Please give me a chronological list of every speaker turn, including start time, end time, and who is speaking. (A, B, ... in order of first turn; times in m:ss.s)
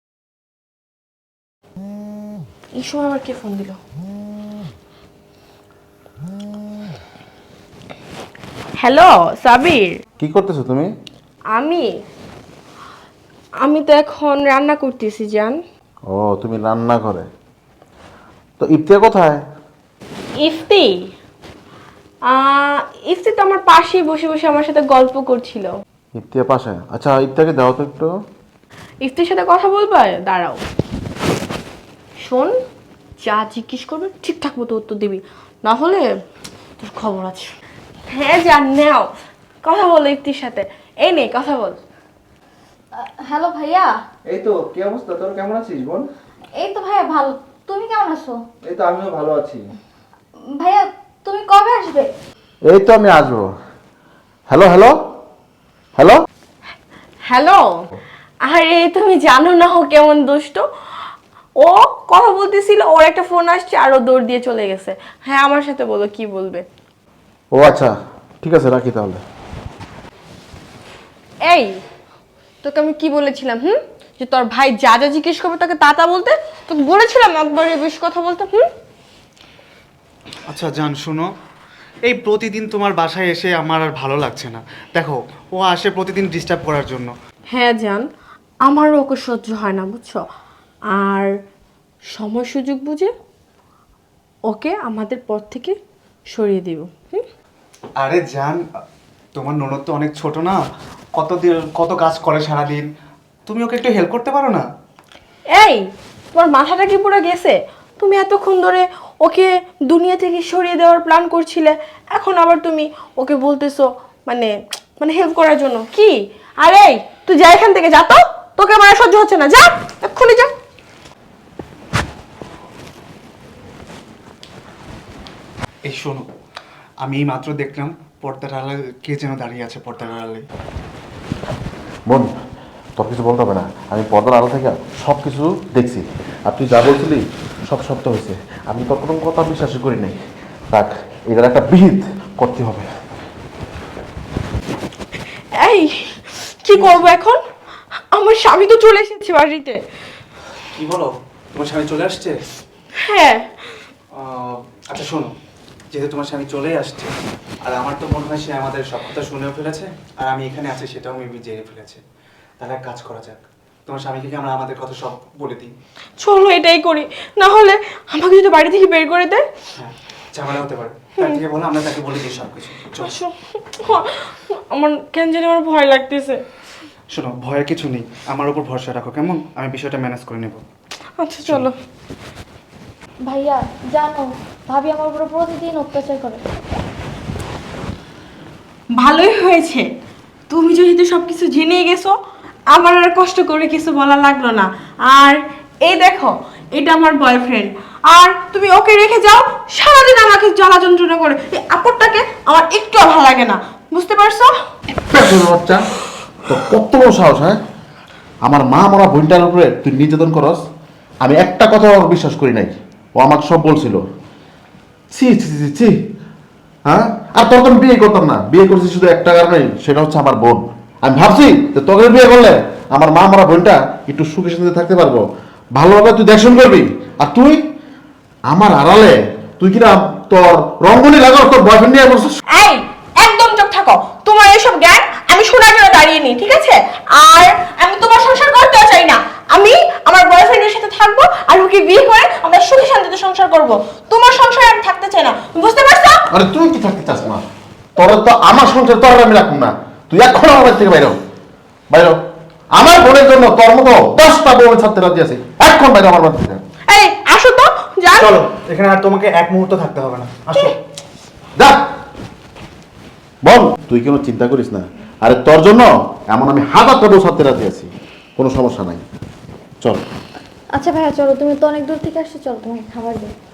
0:02.8-0:03.8 A
0:08.8-0:10.0 A
0:10.2-0:10.9 B
0:11.5-0:11.8 A
0:13.6-0:15.6 A
0:16.1-0:17.3 B
0:18.6-0:19.4 B
0:20.4-0:21.0 A
0:22.3-0:25.7 A
0:26.2-0:28.1 B
0:29.0-0:30.6 A
0:32.2-0:32.5 A
0:33.2-0:36.0 A
0:36.8-0:37.5 A
0:38.1-0:39.1 A
0:39.6-0:41.8 A
0:43.0-0:43.9 C
0:44.3-0:46.0 D
0:46.6-0:48.4 C
0:48.6-0:49.6 D
0:50.6-0:52.1 C
0:52.7-0:53.5 B
0:54.5-0:55.0 B
0:56.0-0:56.2 B
0:57.2-0:57.8 A
0:58.5-1:00.6 A
1:01.6-1:06.6 A
1:07.5-1:09.2 B
1:11.4-1:11.7 A
1:12.6-1:18.6 A
1:20.5-1:21.3 E
1:22.0-1:27.1 E
1:27.5-1:28.1 A
1:28.6-1:30.2 A
1:30.9-1:31.3 A
1:32.1-1:33.1 A
1:34.5-1:35.8 A
1:36.3-1:37.2 A
1:38.0-1:38.6 E
1:39.4-1:40.6 E
1:41.2-1:42.8 E
1:43.4-1:44.6 E
1:45.5-2:00.5 A
2:05.8-2:06.3 E
2:07.0-2:10.4 E
2:12.1-2:12.3 B
2:13.0-2:20.2 B
2:20.7-2:22.9 B
2:25.6-2:27.4 A
2:28.1-2:29.8 A
2:30.7-2:32.4 E
2:33.0-2:33.5 A
2:34.1-2:35.3 E
2:35.9-2:37.1 E
2:37.6-2:42.0 E
2:42.6-2:45.7 E
2:46.2-2:49.4 A
2:49.7-2:53.2 E
2:53.0-2:56.4 A
2:57.1-3:00.6 E
3:01.2-3:01.7 A
3:03.2-3:06.4 C
3:09.0-3:09.9 A
3:10.5-3:12.2 A
3:12.7-3:24.5 A
3:25.1-3:25.8 B
3:26.5-3:27.6 B
3:28.4-3:30.6 B
3:31.2-3:34.0 B
3:35.1-3:35.9 B
3:36.9-3:45.2 B
3:45.7-3:47.6 B
3:48.5-3:52.4 B
3:52.5-4:06.2 A
4:06.3-4:07.4 B
4:08.0-4:11.2 B
4:11.9-4:12.2 B
4:12.7-4:16.6 B
4:16.9-4:18.4 A
4:18.2-4:20.8 E
4:21.6-4:21.8 B
4:23.4-4:29.0 B
4:30.7-4:33.3 C